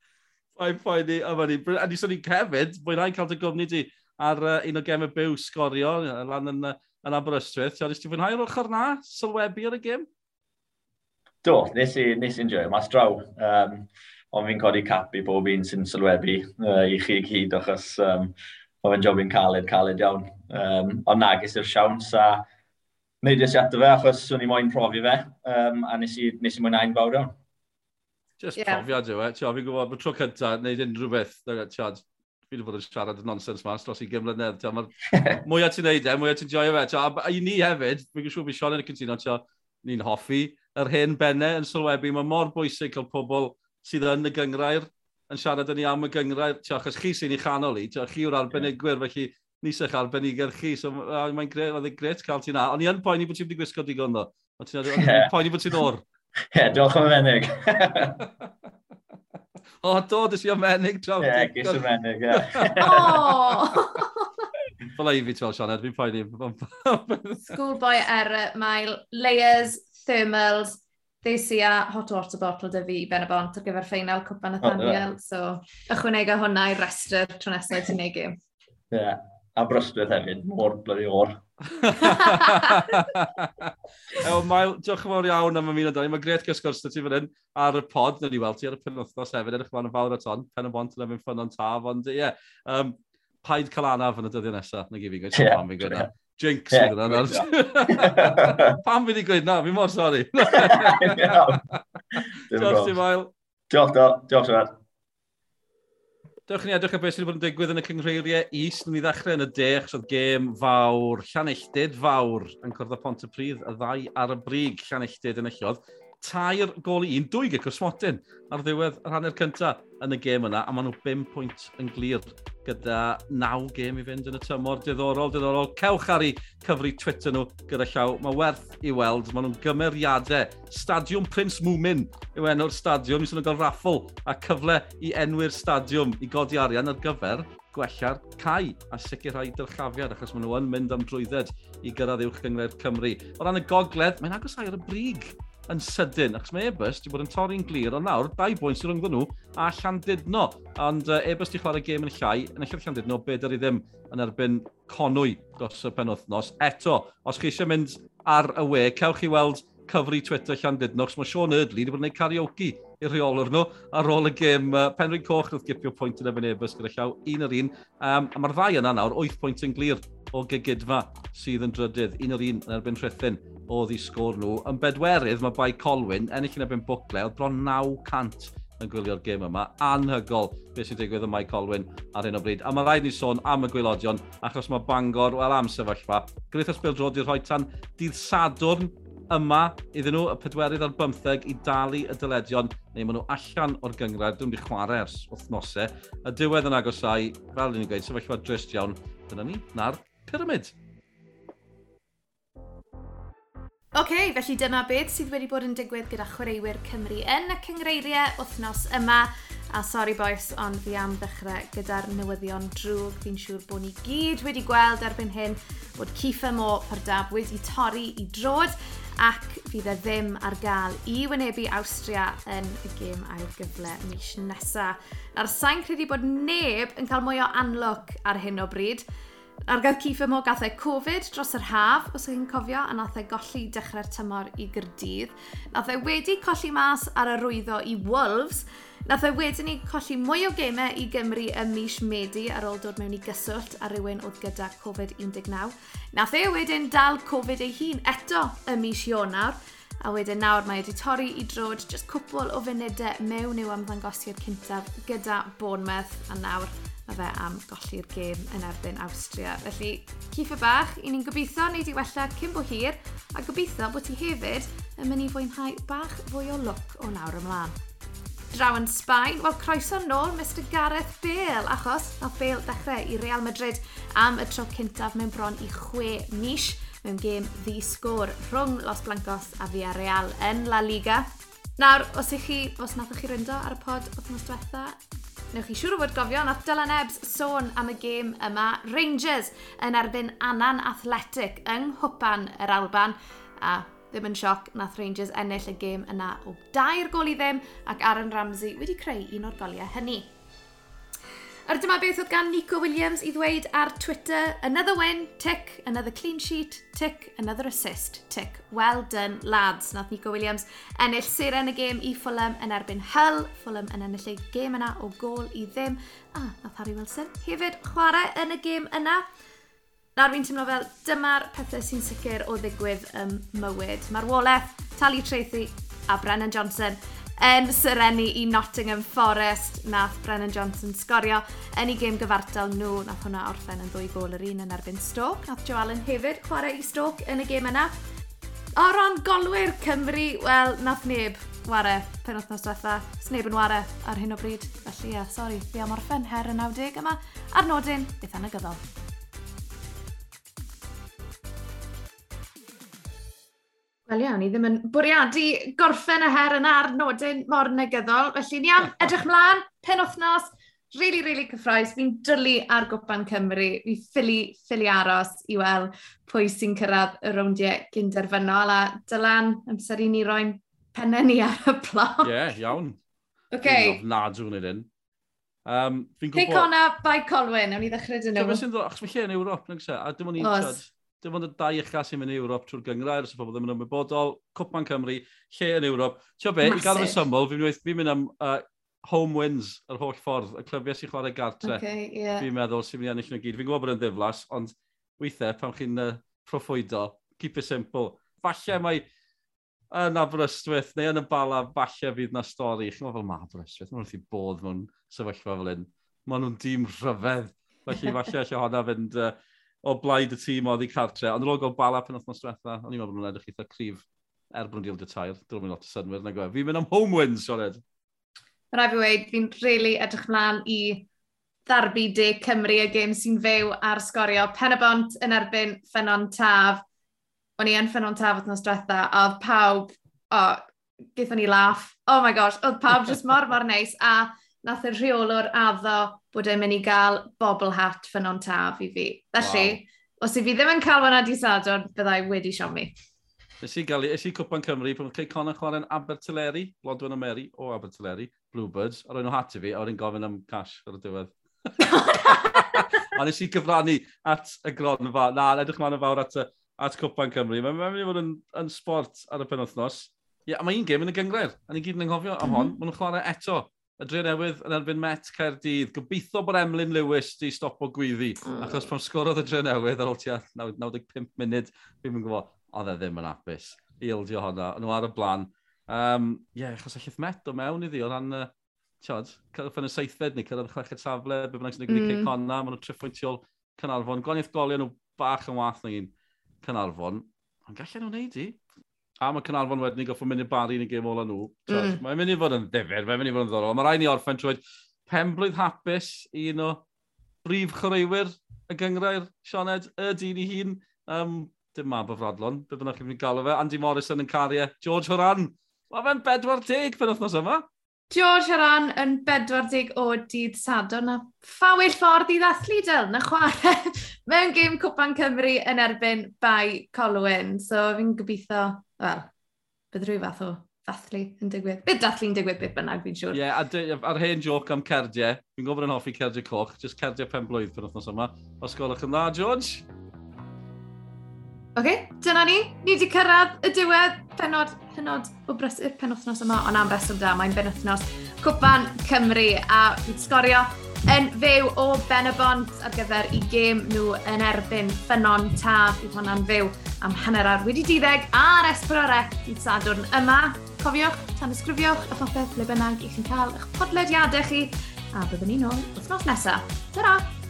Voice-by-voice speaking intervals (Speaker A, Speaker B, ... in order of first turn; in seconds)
Speaker A: 0.6-10.1, 28.4-34.9, 35.5-56.0, 59.8-61.8, 62.3-63.1, 65.0-67.5, 81.8-83.6, 84.2-101.8, 102.5-103.3, 106.5-200.7, 372.2-373.0, 373.6-374.9, 375.7-376.7, 378.4-391.8, 392.4-399.1, 399.9-417.8, 439.4-439.8, 443.6-478.5, 479.0-488.6, 489.2-496.8, 497.4-507.6, 523.3-529.9
Speaker B: 11.4-22.4, 23.2-27.4, 35.1-35.4, 54.9-55.8, 56.5-58.2, 61.2-63.2, 74.6-75.0, 78.9-81.4, 95.4-96.1, 96.7-98.8, 100.6-101.6, 102.5-103.0, 103.7-104.7
Speaker C: 28.6-28.9, 62.8-64.4, 67.5-78.4, 82.1-82.5, 203.9-229.1, 229.7-267.8, 268.5-285.0, 285.5-300.3, 301.7-319.2, 320.2-337.9, 338.8-348.8, 354.1-372.3, 373.5-374.0, 376.3-378.6, 380.4-380.8, 386.6-387.2, 391.6-392.5, 418.7-421.1, 421.7-426.8, 427.6-430.6, 431.2-442.9, 451.9-452.8, 462.4-462.8, 468.5-468.9, 481.9-482.3, 491.7-492.0, 508.1-519.3, 519.9-523.4, 531.8-557.3